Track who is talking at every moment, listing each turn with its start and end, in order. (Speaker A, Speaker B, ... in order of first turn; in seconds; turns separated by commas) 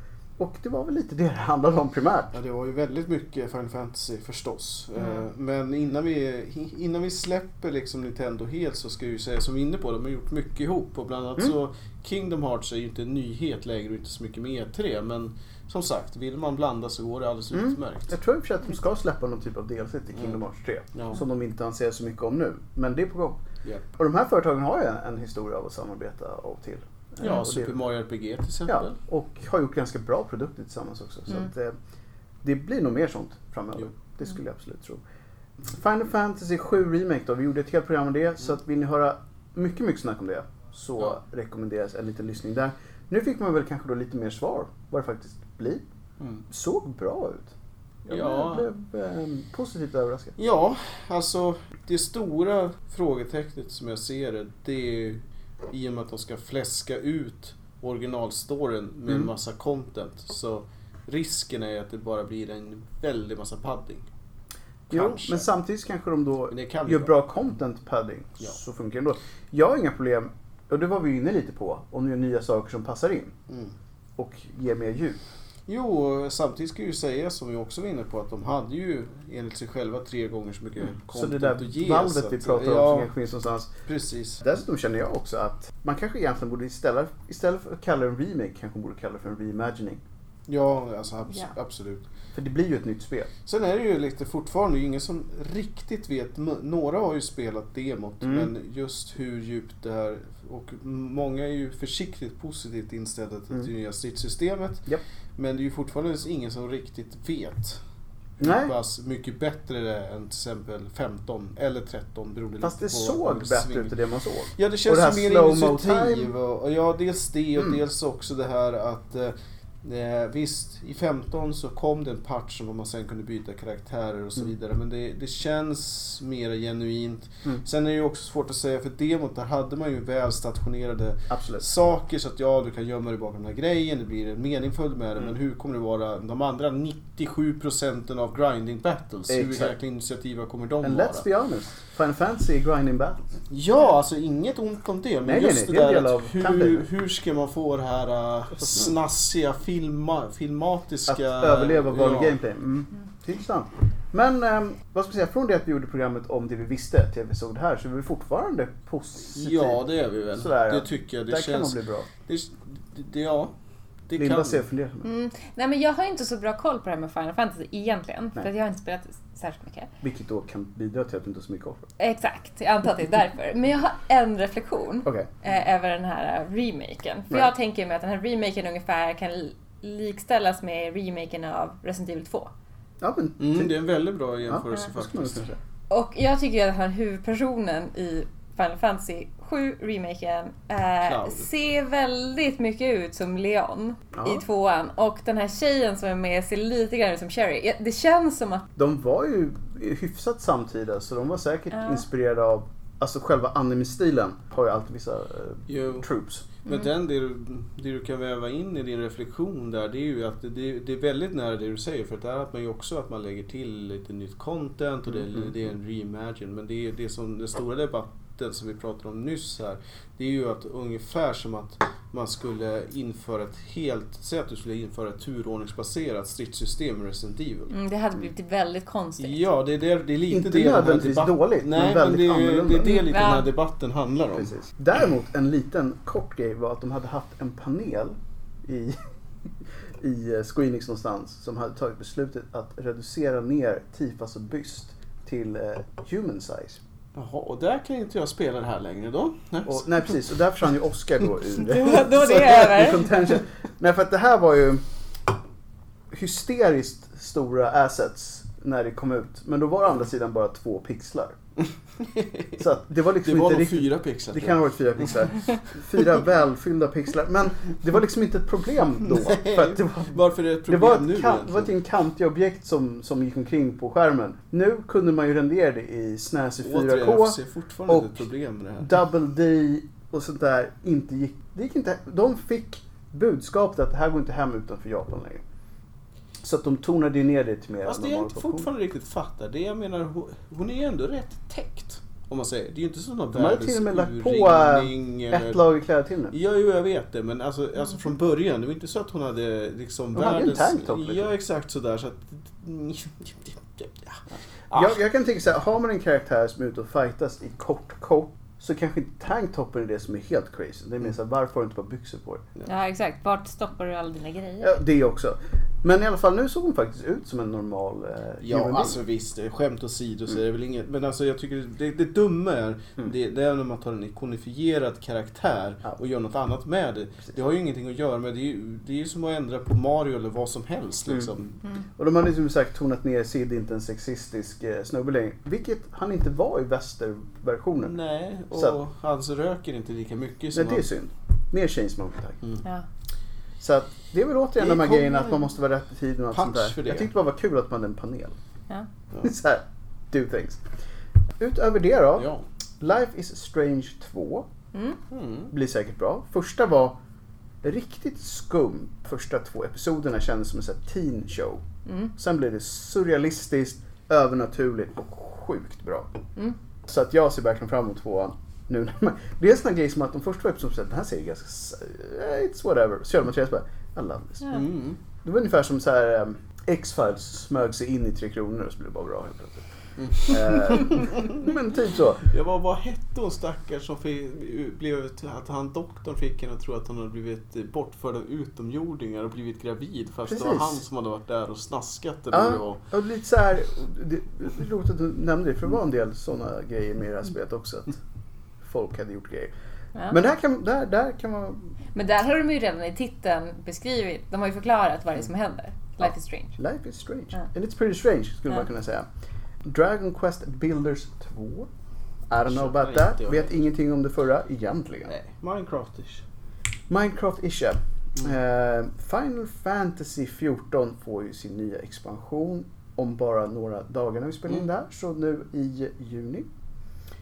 Speaker A: 0.4-2.4, Speaker B: 2.3-18.1, Speaker A: 17.5-23.4, Speaker B: 20.9-21.2, Speaker A: 24.0-27.8, Speaker B: 27.2-29.0, Speaker A: 28.7-31.8, Speaker A: 32.4-35.0, Speaker A: 35.6-45.8, Speaker A: 46.5-47.5, Speaker A: 48.0-50.3, Speaker B: 48.1-48.7, Speaker B: 50.4-64.0, Speaker B: 64.9-65.5, Speaker A: 64.9-73.3, Speaker B: 66.5-67.1, Speaker B: 73.5-73.7, Speaker A: 74.2-75.2, Speaker B: 75.7-83.1, Speaker A: 81.1-83.7, Speaker B: 83.8-84.4, Speaker A: 84.4-90.0, Speaker B: 90.5-92.0, Speaker A: 92.3-93.3, Speaker B: 93.5-107.8, Speaker A: 98.2-98.5, Speaker B: 108.4-113.9, Speaker A: 108.4-108.7, Speaker A: 112.6-116.3, Speaker B: 114.5-141.2, Speaker A: 131.3-131.6, Speaker A: 139.3-139.7, Speaker A: 140.8-143.2, Speaker B: 143.5-152.4, Speaker A: 145.2-146.9, Speaker A: 148.6-148.9, Speaker A: 151.1-162.1, Speaker B: 159.3-163.5, Speaker B: 164.1-164.6, Speaker A: 164.2-165.1, Speaker C: 165.0-169.9, Speaker A: 170.0-171.9, Speaker C: 172.0-182.5, Speaker A: 183.0-183.7, Speaker B: 183.4-185.4, Speaker A: 184.4-185.6, Speaker C: 185.9-198.6, Speaker B: 191.0-191.4, Speaker A: 194.1-194.4, Speaker A: 198.8-206.5, Speaker C: 201.7-202.0, Speaker B: 205.7-227.7, Speaker C: 227.7-229.4, Speaker B: 229.2-234.5, Speaker A: 230.3-233.1, Speaker C: 233.1-233.5, Speaker A: 234.3-239.0, Speaker A: 240.0-246.8, Speaker B: 247.1-250.2, Speaker A: 249.7-254.8, Speaker C: 251.6-253.2, Speaker A: 256.1-261.4, Speaker B: 262.0-262.6, Speaker A: 262.6-278.1, Speaker B: 263.2-265.4, Speaker B: 269.1-271.7, Speaker B: 276.6-279.0, Speaker A: 278.8-285.4, Speaker A: 286.4-288.7, Speaker B: 287.9-295.6, Speaker A: 293.3-296.3, Speaker B: 296.3-305.0, Speaker A: 300.1-301.3, Speaker A: 304.7-312.4, Speaker C: 312.7-314.8, Speaker A: 314.6-319.0, Speaker B: 318.4-331.6, Speaker A: 332.0-337.9, Speaker B: 337.8-340.8, Speaker A: 338.5-338.8, Speaker A: 340.5-342.4, Speaker A: 343.6-348.4, Speaker B: 344.6-345.5, Speaker B: 346.3-347.1, Speaker A: 349.2-350.6, Speaker A: 351.4-354.5, Speaker B: 352.2-352.4, Speaker C: 354.7-355.0, Speaker B: 355.1-355.5, Speaker A: 355.5-357.0, Speaker A: 357.6-361.6, Speaker C: 361.9-362.1, Speaker A: 362.1-366.1, Speaker A: 366.9-374.6, Speaker B: 374.5-375.0, Speaker A: 375.2-382.3, Speaker B: 380.0-381.4, Speaker B: 382.2-392.8, Speaker A: 390.3-390.8, Speaker A: 392.3-398.0, Speaker A: 398.6-399.5, Speaker A: 400.1-401.7, Speaker C: 401.9-406.6, Speaker A: 406.6-409.1, Speaker A: 409.6-411.7, Speaker A: 412.3-415.1, Speaker B: 412.4-413.5, Speaker B: 415.1-416.2, Speaker A: 416.9-426.5